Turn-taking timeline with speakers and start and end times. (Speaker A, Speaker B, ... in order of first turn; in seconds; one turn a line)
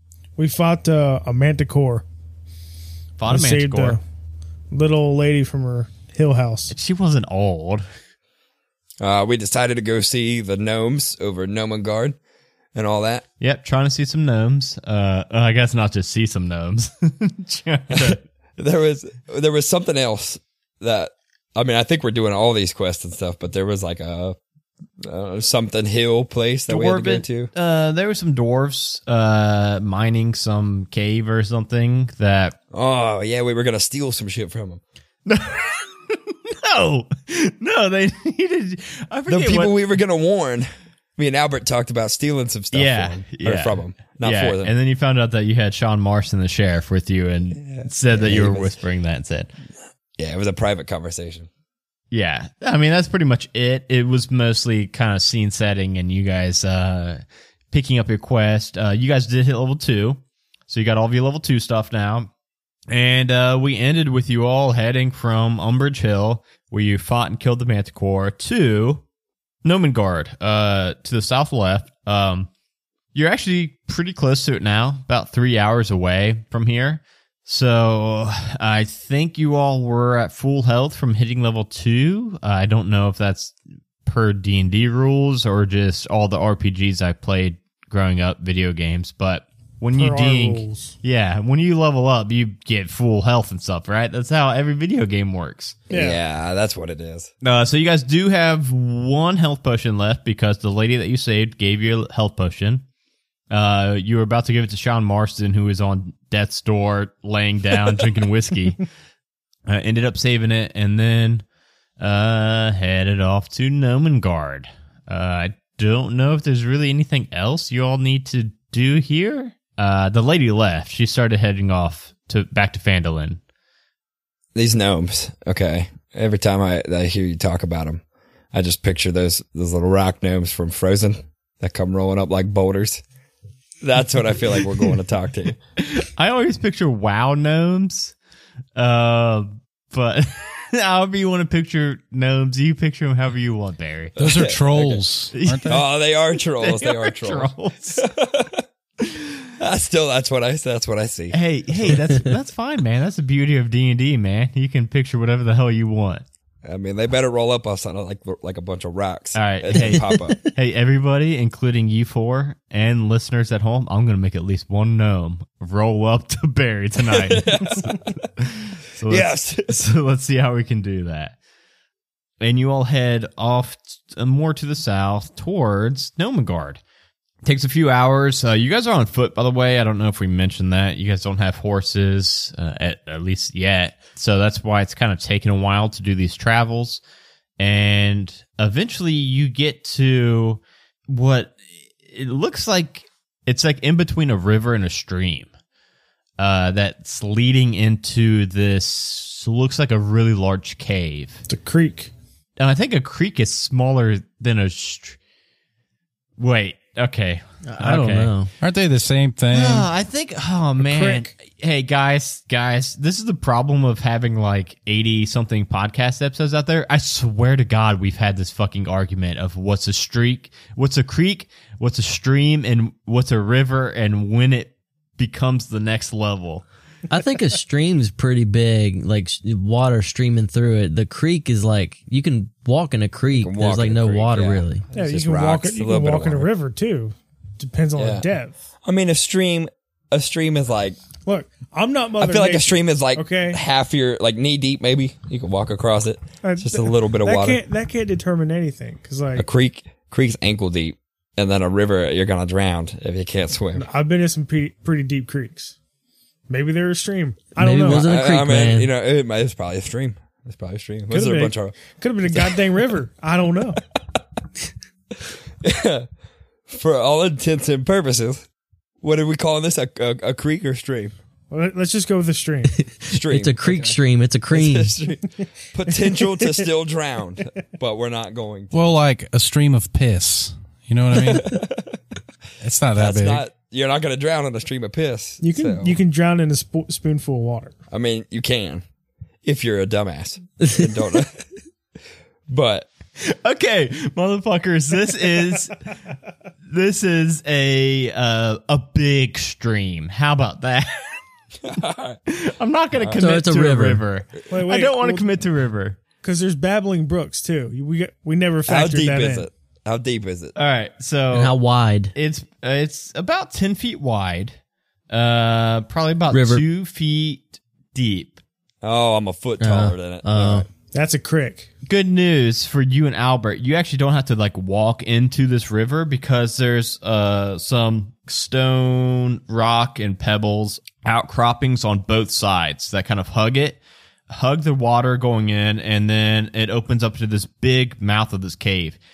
Speaker A: 0.4-2.0
Speaker B: 3.2-4.0
Speaker A: 3.3-4.0
Speaker A: 4.7-6.7
Speaker B: 6.7-7.8
Speaker C: 9.0-12.2
Speaker C: 12.7-13.2
Speaker B: 13.4-18.2
Speaker C: 18.0-24.4
Speaker C: 25.0-27.5
Speaker B: 26.7-32.6
Speaker C: 32.7-34.8
Speaker B: 35.3-39.8
Speaker C: 39.3-44.7
Speaker B: 42.7-49.5
Speaker C: 47.6-48.7
Speaker C: 50.2-51.5
Speaker B: 52.1-62.3
Speaker B: 62.9-69.0
Speaker B: 69.6-72.5
Speaker B: 73.1-95.8
Speaker A: 89.9-91.0
Speaker A: 95.9-96.2
Speaker C: 95.9-97.3
Speaker B: 97.4-102.8
Speaker B: 103.5-108.8
Speaker B: 109.7-111.4
Speaker B: 112.0-123.4
Speaker C: 124.5-128.0
Speaker C: 128.5-133.0
Speaker C: 133.8-135.6
Speaker B: 135.8-138.1
Speaker B: 138.8-144.2
Speaker C: 144.2-145.1
Speaker D: 144.2-145.8
Speaker B: 145.3-145.9
Speaker C: 145.7-148.6
Speaker B: 146.6-148.1
Speaker C: 149.6-151.9
Speaker B: 151.3-156.2
Speaker C: 156.7-160.4
Speaker B: 159.3-171.4
Speaker E: 159.8-160.3
Speaker C: 167.1-168.1
Speaker C: 169.1-169.8
Speaker B: 172.4-176.8
Speaker B: 177.4-187.0
Speaker B: 187.6-191.6
Speaker B: 192.1-195.5
Speaker B: 196.4-201.4
Speaker A: 201.5-202.1
Speaker B: 202.6-205.2
Speaker B: 206.4-208.3
Speaker E: 207.7-208.5
Speaker D: 208.6-209.9
Speaker B: 209.5-226.7
Speaker A: 210.8-211.3
Speaker E: 227.1-234.8
Speaker C: 233.3-236.5
Speaker A: 234.9-238.6
Speaker C: 238.0-238.3
Speaker C: 238.8-241.0
Speaker A: 241.2-243.6
Speaker C: 242.2-247.6
Speaker A: 246.4-249.4
Speaker C: 249.4-253.9
Speaker A: 253.8-255.8
Speaker A: 256.5-258.0
Speaker E: 257.6-258.9
Speaker C: 257.9-261.9
Speaker A: 261.1-263.8
Speaker C: 265.6-266.1
Speaker C: 266.7-268.5
Speaker C: 269.0-271.1
Speaker A: 271.5-272.8
Speaker E: 272.8-274.9
Speaker C: 273.1-274.0
Speaker C: 274.5-278.8
Speaker A: 276.1-276.6
Speaker D: 278.7-281.6
Speaker C: 281.2-282.0
Speaker D: 282.6-283.5
Speaker C: 282.9-286.0
Speaker A: 285.4-287.8
Speaker C: 287.9-288.8
Speaker C: 289.4-291.4
Speaker E: 290.7-291.1
Speaker C: 292.5-292.9
Speaker B: 293.2-295.8
Speaker B: 296.7-301.2
Speaker C: 301.6-302.2
Speaker B: 302.3-306.0
Speaker C: 302.9-303.2
Speaker E: 303.1-304.0
Speaker A: 304.5-305.3
Speaker A: 306.2-309.5
Speaker C: 308.7-310.6
Speaker B: 310.6-311.6
Speaker E: 311.3-312.1
Speaker B: 312.1-314.6
Speaker B: 315.1-318.4
Speaker E: 316.3-316.6
Speaker C: 318.8-320.7
Speaker E: 319.6-320.7
Speaker A: 320.9-321.7
Speaker B: 321.9-339.0